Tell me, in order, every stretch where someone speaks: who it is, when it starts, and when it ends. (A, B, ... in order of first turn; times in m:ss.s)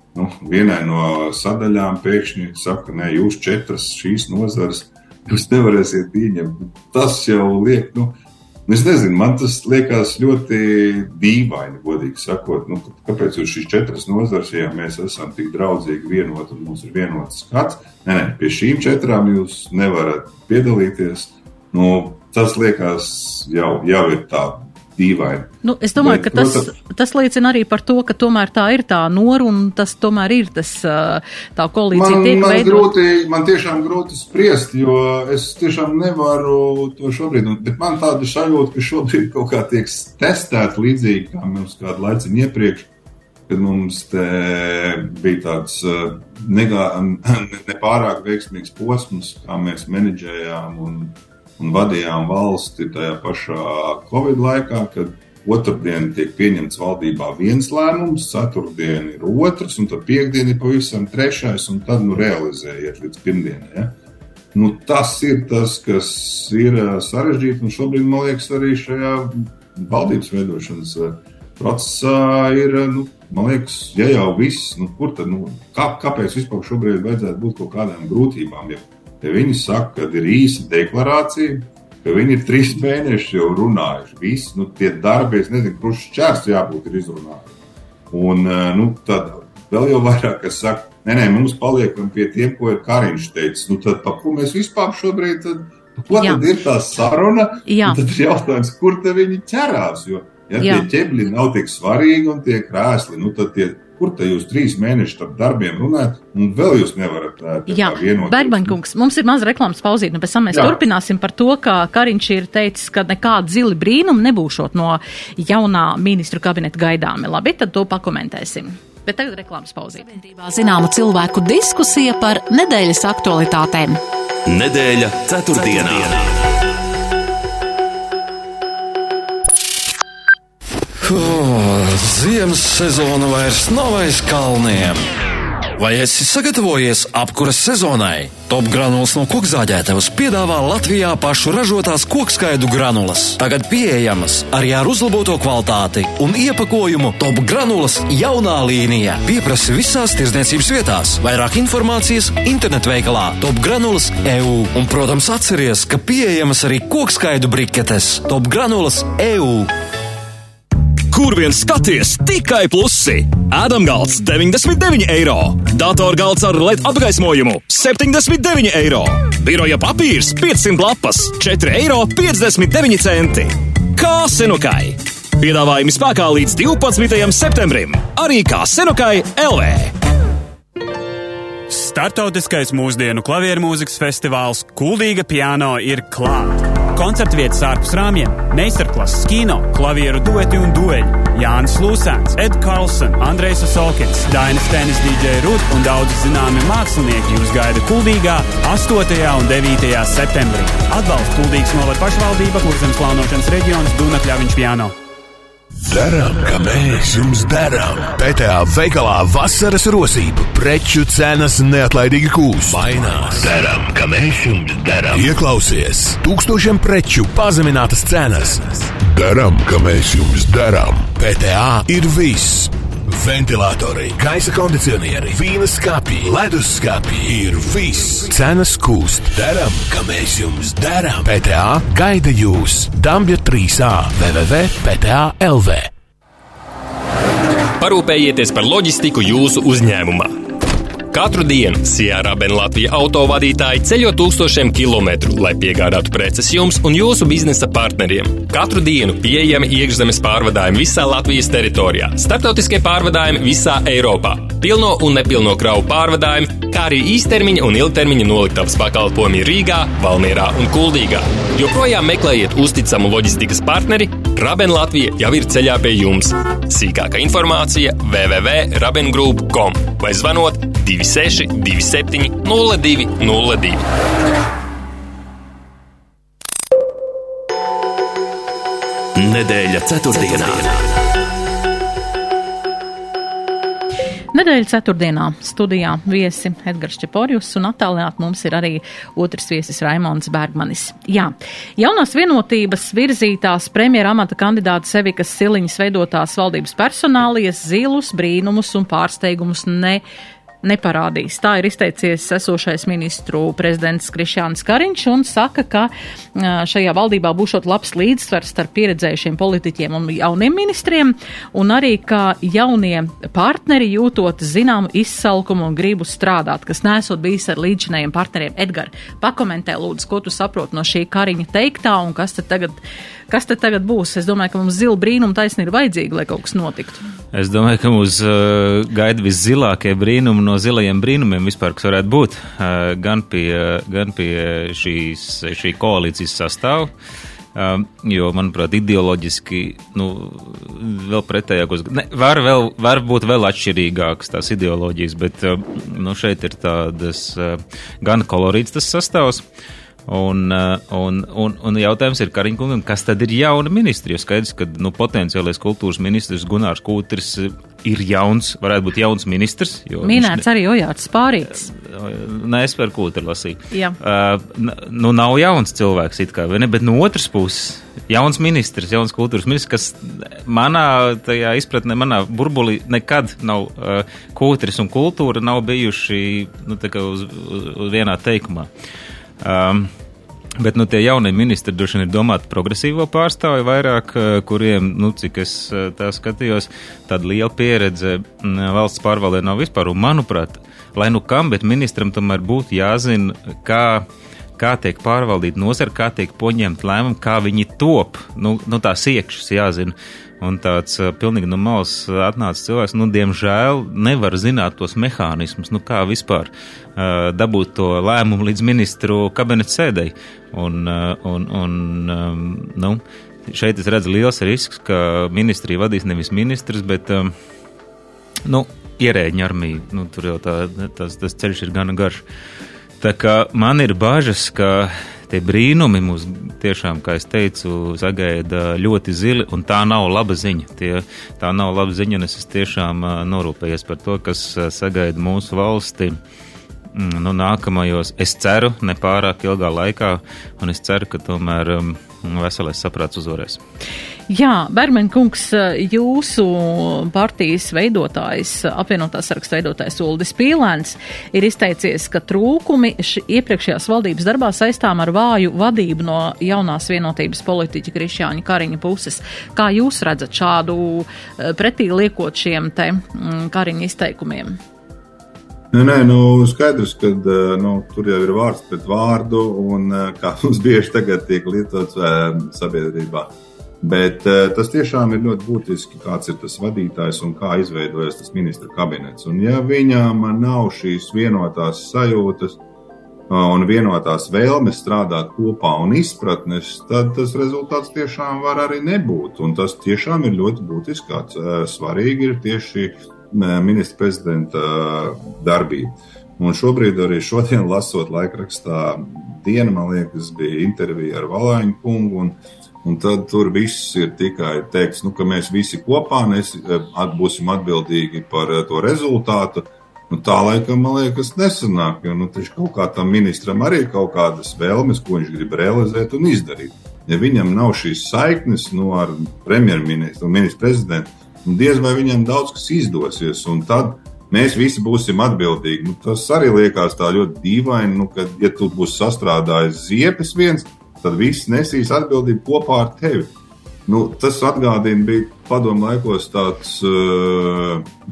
0:00.2-0:26.7 A
0:25.6-0:32.9 B
0:31.9-0:42.9 A
0:43.5-1:04.0 A
1:04.5-1:27.6 A
1:28.1-1:48.8 A
1:36.1-1:36.4 B
1:37.7-1:38.0 B
1:40.6-1:40.9 B
1:47.7-2:04.0 B
1:50.5-1:50.8 A
2:04.5-2:06.7 C
2:11.0-2:15.0 D
2:15.8-2:39.7 D
2:41.1-2:59.9 E
3:01.7-3:25.0 F
3:25.8-3:55.9 G
3:57.8-4:00.4 H
4:01.1-4:33.8 H
4:39.2-4:41.0 C
4:44.3-5:00.0 B
5:00.6-5:22.8 B
5:23.3-5:27.0 B
5:27.3-5:36.9 I
5:37.6-5:49.4 I
5:50.1-6:00.5 I
6:00.0-6:01.7 B
6:01.7-6:18.7 I
6:03.7-6:04.0 B
6:19.4-6:19.9 I
6:20.6-6:34.1 I
6:34.6-6:57.3 I
6:58.4-7:02.2 I
7:03.0-7:16.2 I
7:16.9-7:23.6 I
7:24.3-7:44.6 B
7:45.7-8:02.6 A
8:03.3-8:53.3 A
8:53.9-8:57.9 A